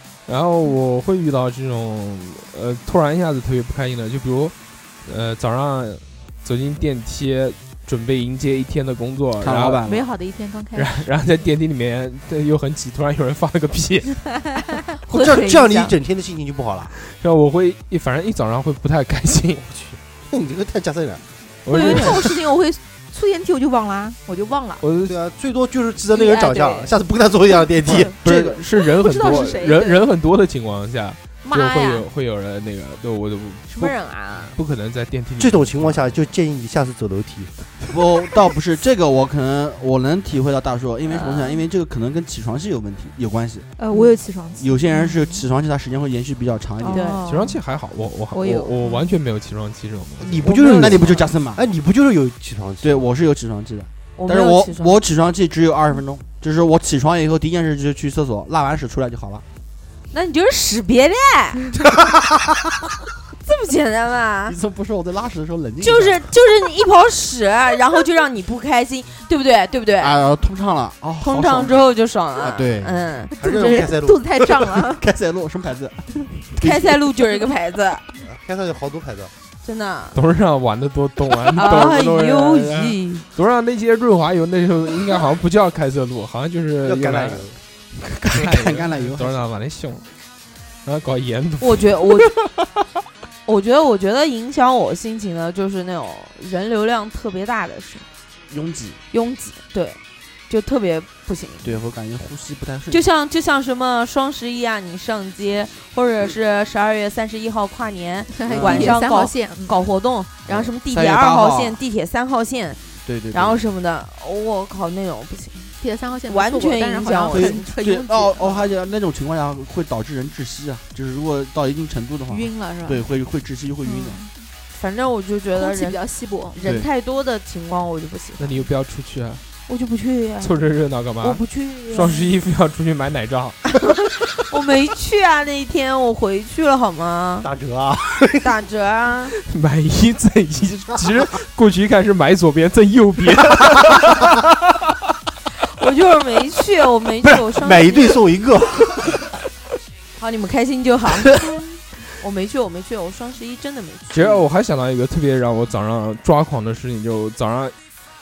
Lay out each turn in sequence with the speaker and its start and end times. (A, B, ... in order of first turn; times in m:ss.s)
0:00.3-0:04.5 A
0:05.0-0:09.8 A
0:09.4-0:10.1 B
0:09.8-0:11.1 C
0:10.8-0:14.2 A
0:15.1-0:15.9 D
0:15.1-0:16.9 E
0:17.1-0:19.6 A
0:19.6-0:21.2 E
0:21.6-0:22.4 A
0:21.7-0:24.8 C
0:21.7-0:22.1 D
0:24.8-0:25.1 A
0:25.0-0:28.2 E
0:26.1-0:26.9 C
0:27.9-0:34.0 A
0:27.9-0:30.0 C
0:28.2-0:28.5 B
0:31.4-0:32.1 C
0:33.7-0:34.5 C
0:34.5-0:36.2 A
0:35.4-0:37.7 E
0:37.9-0:43.7 B
0:41.2-0:41.6 C
0:43.8-0:45.4 C
0:44.6-0:47.0 B
0:46.8-0:47.6 C
0:46.9-0:47.2 D
0:47.3-0:50.4 A
0:48.3-0:49.1 C
0:50.2-0:53.0 E
0:50.4-0:51.6 B
0:50.5-0:51.2 D
0:52.8-0:59.4 B
0:54.2-0:55.0 D
1:00.1-1:01.7 D
1:03.4-1:04.6 D
1:04.5-1:06.2 B
1:05.8-1:10.1 D
1:10.0-1:11.8 B
1:11.2-1:13.8 D
1:12.4-1:13.1 B
1:13.3-1:15.0 C
1:13.4-1:14.3 E
1:14.4-1:17.0 B
1:16.6-1:18.0 D
1:18.2-1:19.3 E
1:19.6-1:20.2 D
1:20.1-1:27.4 A
1:21.5-1:23.2 D
1:26.8-1:27.6 E
1:28.1-1:30.1 A
1:28.3-1:29.4 B
1:30.8-1:32.1 A
1:31.6-1:32.3 D
1:33.4-1:38.0 D
1:38.5-1:39.0 B
1:39.1-1:41.8 D
1:41.6-1:43.0 B
1:42.9-1:55.7 D
1:48.3-1:49.8 C
1:48.4-1:48.9 B
1:50.5-1:51.8 B
1:53.0-1:53.6 B
1:55.8-1:58.7 C
1:56.3-1:57.7 D
1:57.3-2:04.2 B
2:02.3-2:03.1 C
2:03.8-2:04.3 C
2:04.7-2:06.0 D
2:05.6-2:06.6 C
2:06.5-2:08.6 D
2:06.6-2:06.9 B
2:08.4-2:09.4 A
2:09.7-2:10.5 D
2:10.4-2:13.6 A
2:11.2-2:12.1 D
2:11.9-2:12.3 C
2:14.5-2:17.5 D
2:17.4-2:18.4 E
2:18.4-2:19.4 D
2:19.4-2:24.5 A
2:25.7-2:28.2 D
2:27.5-2:29.2 E
2:30.2-2:31.6 D
2:32.2-2:34.4 D
2:34.1-2:37.7 A